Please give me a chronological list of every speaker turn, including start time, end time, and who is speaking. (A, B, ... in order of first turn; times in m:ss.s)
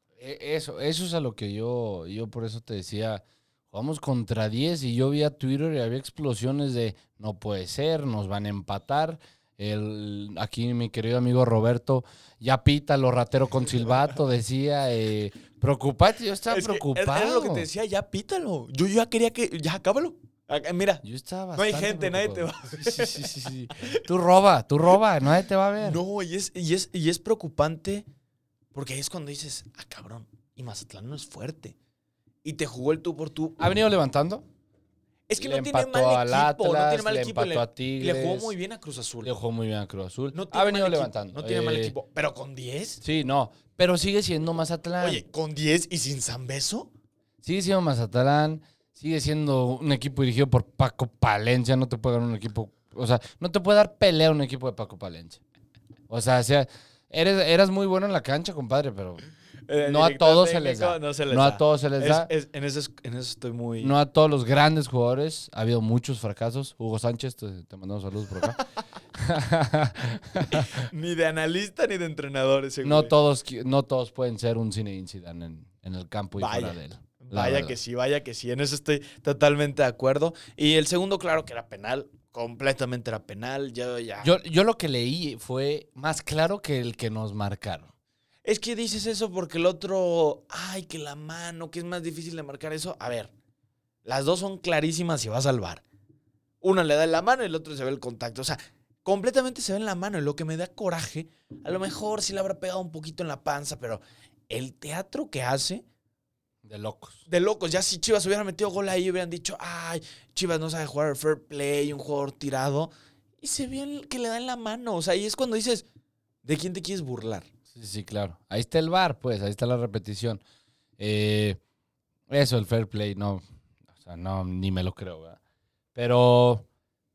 0:00.2-0:17.7 A
0:16.5-0:21.0 B
0:21.0-0:26.0 A
0:21.5-0:23.9 B
0:25.8-0:28.0 B
0:28.7-0:31.8 B
0:32.4-0:33.8 B
0:33.6-0:34.4 A
0:35.3-0:39.3 B
0:35.4-0:38.5 A
0:39.2-0:41.9 A
0:40.3-0:43.0 B
0:43.0-0:45.2 A
0:45.0-0:46.9 B
0:47.4-0:55.4 A
0:56.1-0:59.2 A
0:59.7-1:04.0 B
0:59.8-1:02.3 A
1:03.8-1:08.6 A
1:09.2-1:10.7 A
1:10.5-1:13.1 B
1:12.8-1:17.8 A
1:16.4-1:24.3 B
1:24.2-1:27.9 A
1:28.4-1:33.3 B
1:34.0-1:35.8 B
1:36.6-1:45.8 B
1:46.6-1:47.2 A
1:47.3-1:55.8 B
1:56.4-1:57.5 B
1:57.7-2:00.4 A
2:01.0-2:01.6 A
2:02.3-2:03.4 A
2:03.9-2:05.4 A
2:05.9-2:06.7 A